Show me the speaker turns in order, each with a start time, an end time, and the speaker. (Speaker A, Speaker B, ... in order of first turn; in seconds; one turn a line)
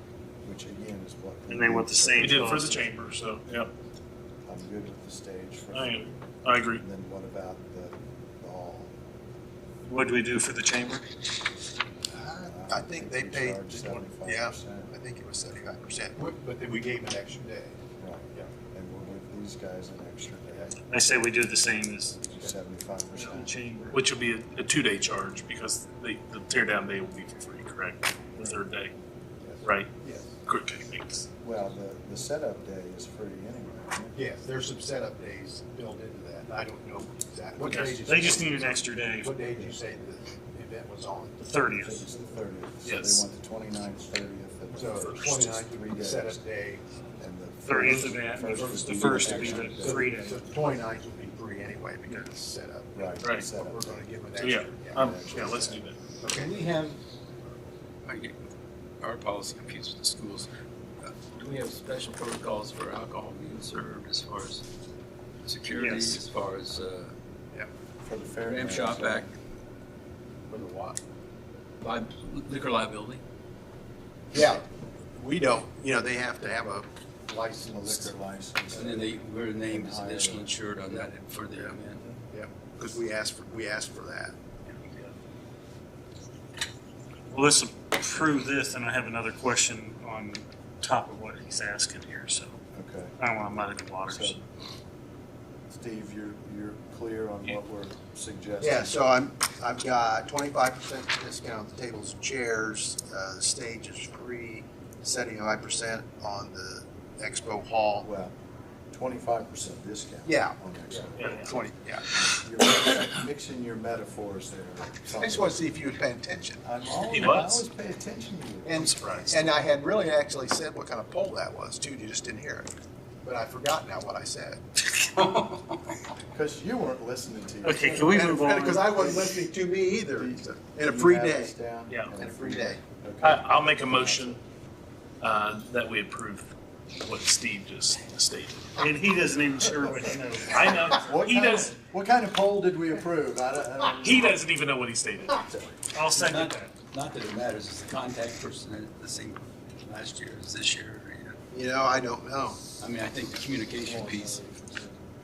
Speaker A: 0.4-2.8
Speaker B: 1.5-2.8
Speaker C: 2.2-3.7
Speaker A: 4.4-6.2
Speaker C: 5.7-6.8
Speaker A: 6.7-8.9
Speaker B: 9.9-11.1
Speaker D: 12.1-17.8
Speaker A: 12.4-14.9
Speaker A: 18.0-20.8
Speaker B: 20.9-22.2
Speaker A: 22.2-23.5
Speaker B: 23.1-24.0
Speaker C: 23.9-28.9
Speaker D: 29.4-30.4
Speaker C: 29.6-29.9
Speaker C: 30.5-31.3
Speaker A: 31.4-34.2
Speaker D: 34.1-41.4
Speaker C: 37.5-38.0
Speaker B: 38.0-39.4
Speaker A: 39.5-39.9
Speaker B: 41.4-42.1
Speaker A: 41.8-46.4
Speaker C: 42.8-43.2
Speaker D: 44.7-46.8
Speaker C: 44.9-45.4
Speaker A: 47.2-50.1
Speaker B: 47.6-50.4
Speaker D: 47.7-55.6
Speaker A: 52.9-54.1
Speaker C: 53.2-53.5
Speaker C: 54.4-56.1
Speaker A: 54.9-55.8
Speaker D: 56.2-56.6
Speaker E: 56.3-57.0
Speaker E: 58.0-58.3
Speaker E: 59.0-60.5
Speaker E: 61.0-64.6
Speaker E: 65.4-67.2
Speaker B: 65.7-66.2
Speaker A: 68.0-69.3
Speaker E: 68.5-69.3
Speaker E: 70.5-71.0
Speaker E: 71.8-73.2
Speaker D: 74.3-78.1
Speaker A: 77.7-80.6
Speaker E: 78.7-82.2
Speaker D: 82.3-84.3
Speaker E: 84.6-85.1
Speaker B: 87.3-92.6
Speaker A: 92.7-93.2
Speaker B: 93.2-94.4
Speaker A: 94.1-94.4
Speaker A: 95.7-99.0
Speaker D: 98.6-108.1
Speaker A: 108.0-108.3
Speaker A: 108.9-111.3
Speaker D: 110.2-112.1
Speaker C: 111.2-111.6
Speaker A: 112.1-115.6
Speaker D: 115.1-116.6
Speaker A: 116.6-119.6
Speaker C: 116.9-117.6
Speaker D: 118.6-122.7
Speaker C: 119.0-119.3
Speaker D: 123.2-124.6
Speaker E: 124.8-126.0
Speaker A: 126.3-128.2
Speaker B: 127.6-129.1
Speaker D: 127.8-131.6
Speaker A: 128.8-129.5
Speaker A: 130.1-134.4
Speaker D: 132.2-132.8
Speaker C: 133.2-134.4
Speaker C: 135.2-138.8
Speaker B: 138.8-140.7
Speaker A: 139.6-144.3
Speaker C: 140.5-141.7
Speaker C: 144.0-145.4
Speaker A: 145.3-145.8
Speaker B: 145.9-146.7
Speaker E: 146.2-151.4
Speaker D: 151.5-152.6
Speaker E: 152.8-154.4
Speaker A: 153.8-155.1